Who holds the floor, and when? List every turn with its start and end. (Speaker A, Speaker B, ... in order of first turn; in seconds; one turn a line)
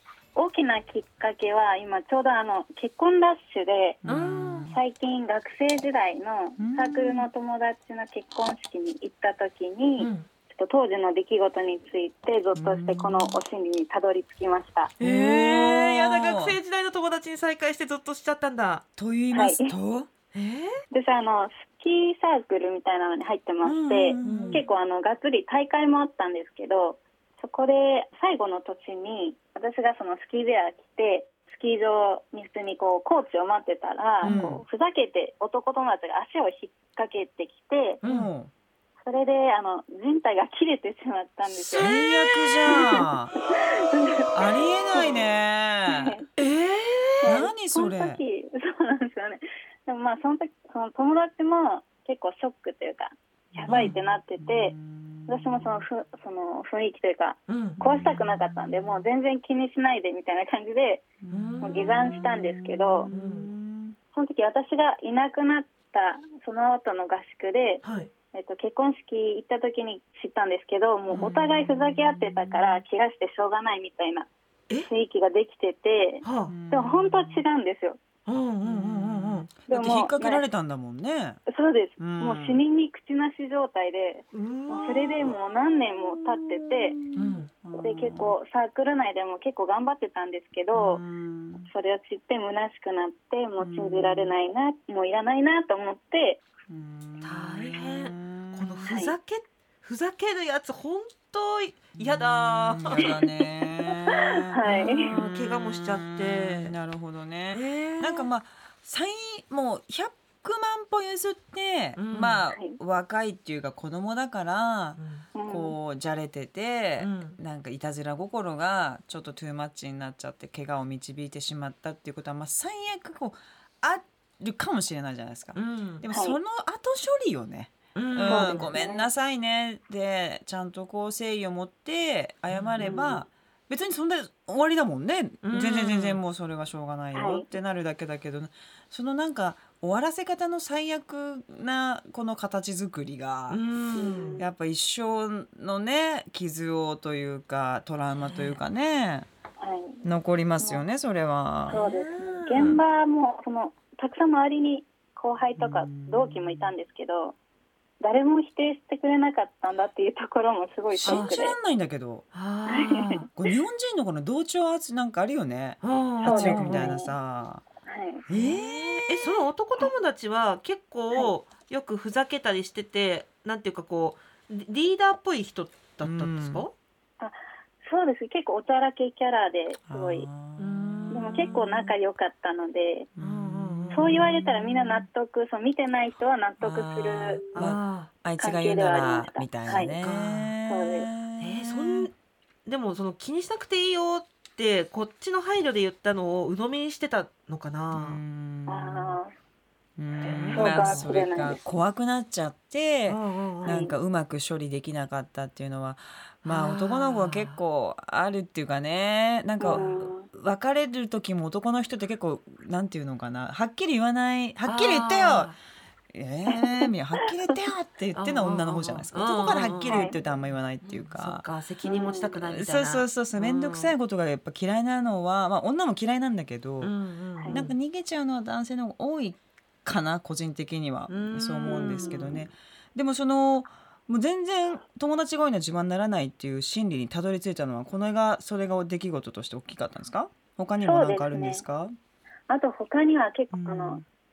Speaker A: 0.3-4.0
Speaker B: 4.0-4.8
Speaker C: 4.0-4.7
Speaker A: 4.7-14.9
Speaker B: 6.6-7.3
Speaker C: 10.0-10.3
Speaker B: 12.5-13.4
Speaker C: 15.0-18.8
Speaker B: 15.0-16.6
Speaker B: 19.0-20.1
Speaker A: 19.3-19.7
Speaker C: 20.3-20.8
Speaker A: 20.9-38.0
Speaker B: 23.6-24.6
Speaker C: 24.2-24.6
Speaker B: 34.2-34.6
Speaker C: 38.0-38.3
Speaker B: 38.0-38.5
Speaker A: 39.0-45.2
Speaker B: 41.5-43.3
Speaker B: 44.3-46.2
Speaker A: 45.9-46.2
Speaker C: 46.4-47.3
Speaker A: 47.2-54.7
Speaker B: 47.2-48.2
Speaker B: 53.5-55.8
Speaker C: 53.6-53.9
Speaker A: 55.3-61.0
Speaker C: 57.5-57.8
Speaker B: 57.8-59.0
Speaker B: 61.2-64.0
Speaker C: 61.3-61.9
Speaker A: 61.6-63.1
Speaker C: 63.1-63.5
Speaker A: 64.1-67.8
Speaker C: 67.8-68.1
Speaker A: 68.3-74.3
Speaker B: 71.1-72.8
Speaker A: 74.9-78.0
Speaker C: 76.2-76.5
Speaker B: 76.5-77.4
Speaker C: 78.2-79.5
Speaker B: 78.6-81.4
Speaker A: 79.7-80.4
Speaker A: 81.5-87.0
Speaker B: 82.0-82.6
Speaker C: 84.3-85.3
Speaker B: 84.7-88.3
Speaker C: 87.2-87.5
Speaker A: 87.7-91.0
Speaker B: 90.7-91.7
Speaker A: 91.7-96.4
Speaker B: 93.6-94.3
Speaker B: 96.7-98.9
Speaker C: 97.2-103.1
Speaker A: 98.9-99.1
Speaker B: 102.0-143.6
Speaker A: 103.9-105.2
Speaker C: 104.6-106.7
Speaker C: 107.5-108.3
Speaker C: 112.0-112.4
Speaker A: 112.5-112.8
Speaker C: 115.0-115.3
Speaker A: 115.3-115.8
Speaker C: 117.0-117.4
Speaker C: 125.5-126.0
Speaker A: 126.1-126.4
Speaker C: 127.9-128.7
Speaker A: 128.2-129.1
Speaker C: 132.5-133.2
Speaker C: 135.4-136.2
Speaker A: 137.1-137.5
Speaker C: 143.5-144.4
Speaker A: 143.9-144.4
Speaker B: 144.4-149.3
Speaker C: 148.3-148.5
Speaker A: 149.6-150.0
Speaker B: 150.0-151.8
Speaker C: 151.7-152.8
Speaker A: 151.7-157.3
Speaker B: 152.6-152.8
Speaker B: 155.6-156.7
Speaker A: 158.0-161.6
Speaker B: 160.9-162.2
Speaker C: 161.0-161.3
Speaker C: 162.3-163.3
Speaker A: 162.7-163.2
Speaker B: 163.3-167.6
Speaker C: 165.8-166.9
Speaker A: 166.2-167.1
Speaker A: 167.8-168.2
Speaker B: 168.3-169.4
Speaker C: 168.3-176.7
Speaker B: 176.0-176.7
Speaker A: 177.2-180.3
Speaker B: 179.9-181.6
Speaker C: 180.6-181.9
Speaker A: 181.1-183.1
Speaker B: 183.2-185.0
Speaker C: 183.2-184.3
Speaker A: 183.9-187.4
Speaker B: 186.6-192.1
Speaker C: 187.5-188.1
Speaker A: 188.4-190.0
Speaker C: 190.0-190.5
Speaker A: 190.6-191.1
Speaker C: 191.4-192.1
Speaker C: 192.7-198.2
Speaker B: 197.9-199.2
Speaker A: 198.7-199.3
Speaker B: 200.0-215.5
Speaker C: 200.2-201.1
Speaker A: 200.5-201.6
Speaker C: 203.1-203.8
Speaker A: 203.6-203.9
Speaker C: 206.4-207.6
Speaker A: 209.6-210.3
Speaker C: 214.6-215.6
Speaker B: 216.1-221.4
Speaker A: 216.5-217.5
Speaker C: 218.2-220.1
Speaker A: 219.9-220.2
Speaker C: 220.8-223.9
Speaker A: 221.8-222.3
Speaker B: 222.4-226.9
Speaker C: 226.8-227.7
Speaker B: 227.5-241.9
Speaker C: 231.1-232.4
Speaker A: 231.6-232.4
Speaker A: 240.8-241.6
Speaker A: 242.5-244.0
Speaker B: 243.5-244.0